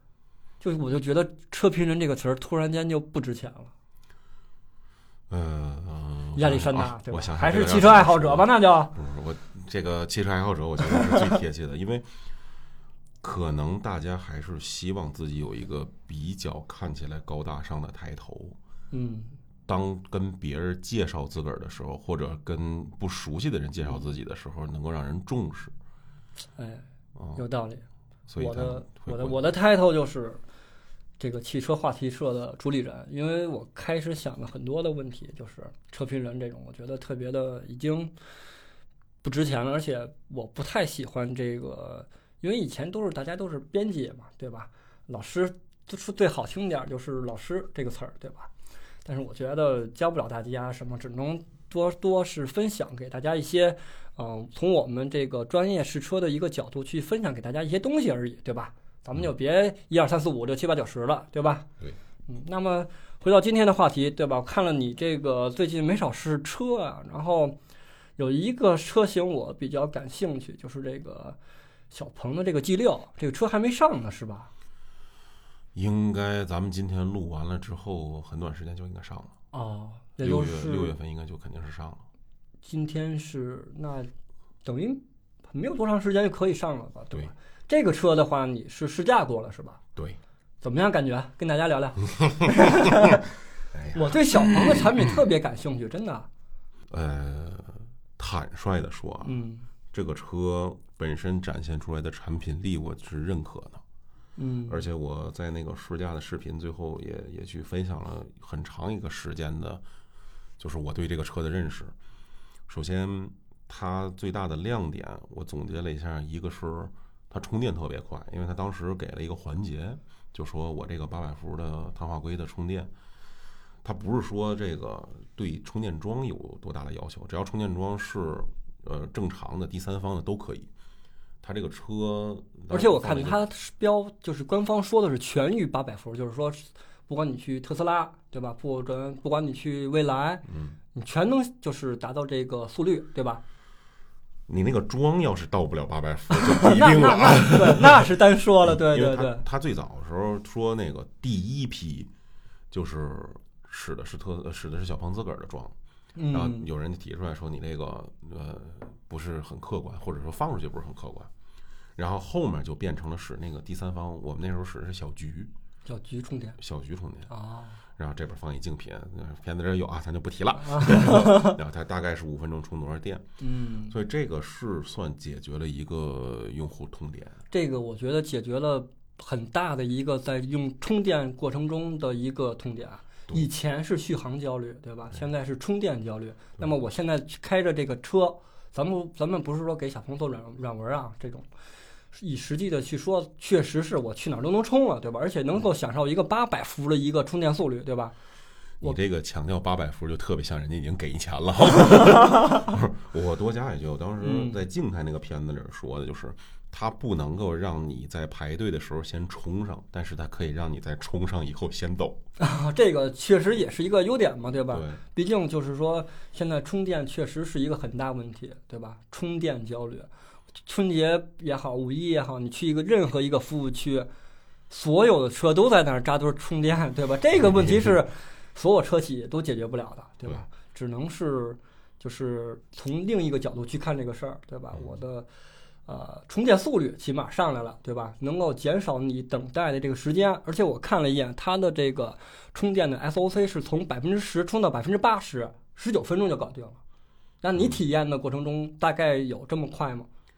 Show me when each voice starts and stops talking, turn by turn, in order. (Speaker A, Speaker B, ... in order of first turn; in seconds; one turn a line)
Speaker A: 0.6-3.7
Speaker B: 5.3-12.1
Speaker A: 6.3-8.9
Speaker B: 13.2-18.6
Speaker A: 18.9-19.4
Speaker B: 19.7-25.7
Speaker A: 26.6-26.8
Speaker B: 27.1-27.4
Speaker A: 27.4-27.8
Speaker B: 28.3-29.4
Speaker A: 28.4-30.4
Speaker A: 31.2-38.1
Speaker A: 39.2-48.5
Speaker A: 49.0-61.7
Speaker A: 62.3-67.5
Speaker A: 68.2-71.4
Speaker A: 71.9-74.5
Speaker B: 75.7-79.3
Speaker A: 79.5-80.9
Speaker B: 80.2-82.0
Speaker A: 82.6-84.1
Speaker A: 84.6-89.8
Speaker A: 90.6-93.2
Speaker B: 93.7-94.9
Speaker A: 93.9-96.3
Speaker B: 96.9-99.4
Speaker A: 99.2-99.7
Speaker B: 99.9-103.8
Speaker A: 104.4-104.8
Speaker B: 104.7-109.8
Speaker B: 110.6-111.9
Speaker B: 112.7-122.9
Speaker B: 123.8-130.7
Speaker B: 131.4-133.4
Speaker A: 132.7-143.4
Speaker B: 140.4-140.8
Speaker B: 144.5-148.1
Speaker A: 146.3-149.4
Speaker B: 148.6-152.1
Speaker B: 152.7-155.7
Speaker A: 156.1-156.7
Speaker B: 156.3-161.3
Speaker B: 162.0-165.5
Speaker A: 165.8-166.6
Speaker B: 166.6-167.3
Speaker A: 167.3-167.8
Speaker B: 168.0-173.2
Speaker A: 170.6-171.6
Speaker A: 173.4-173.9
Speaker B: 173.9-177.4
Speaker A: 177.5-191.5
Speaker A: 192.1-198.1
Speaker B: 198.8-212.2
Speaker A: 204.2-204.6
Speaker A: 212.4-220.1
Speaker B: 214.7-215.0
Speaker A: 220.7-224.1
Speaker A: 224.7-235.3
Speaker B: 227.4-227.9
Speaker A: 235.8-246.8
Speaker A: 247.4-250.1